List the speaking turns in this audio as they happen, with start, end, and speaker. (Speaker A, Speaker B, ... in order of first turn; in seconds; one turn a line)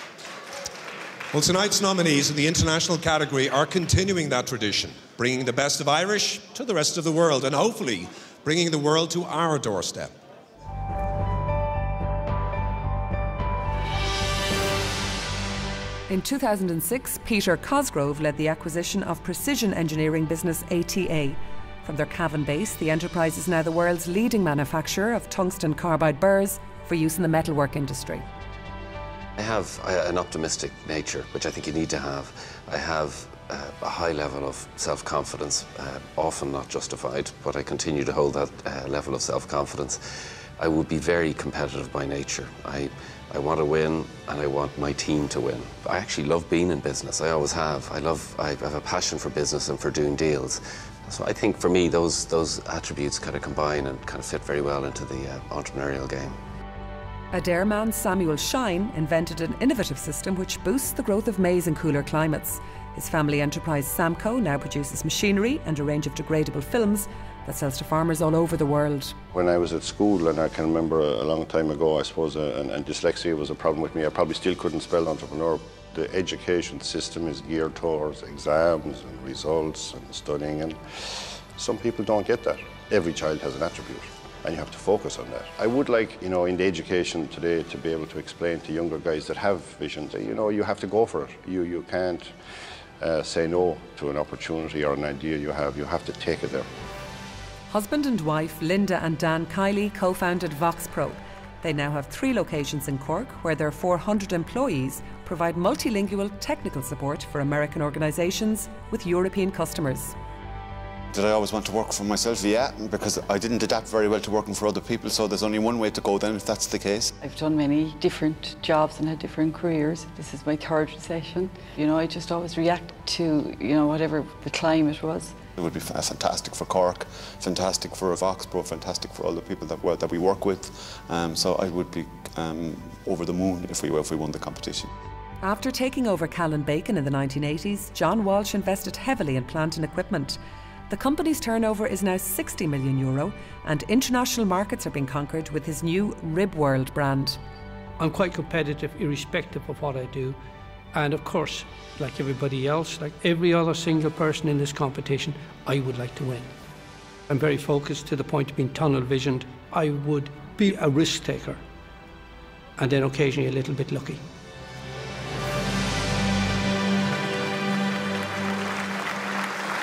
Speaker A: 1.3-10.1
Speaker B: 16.1-28.2
Speaker C: 29.4-39.9
Speaker C: 40.6-50.5
Speaker C: 51.1-56.2
Speaker B: 57.3-69.2
Speaker D: 69.3-92.3
Speaker D: 93.0-96.7
Speaker B: 97.7-110.1
Speaker E: 111.1-117.1
Speaker F: 119.5-123.4
Speaker F: 124.3-124.8
Speaker E: 125.6-134.9
Speaker B: 135.4-147.4
Speaker G: 148.0-150.4
Speaker G: 150.9-156.5
Speaker G: 157.3-161.6
Speaker G: 162.8-164.2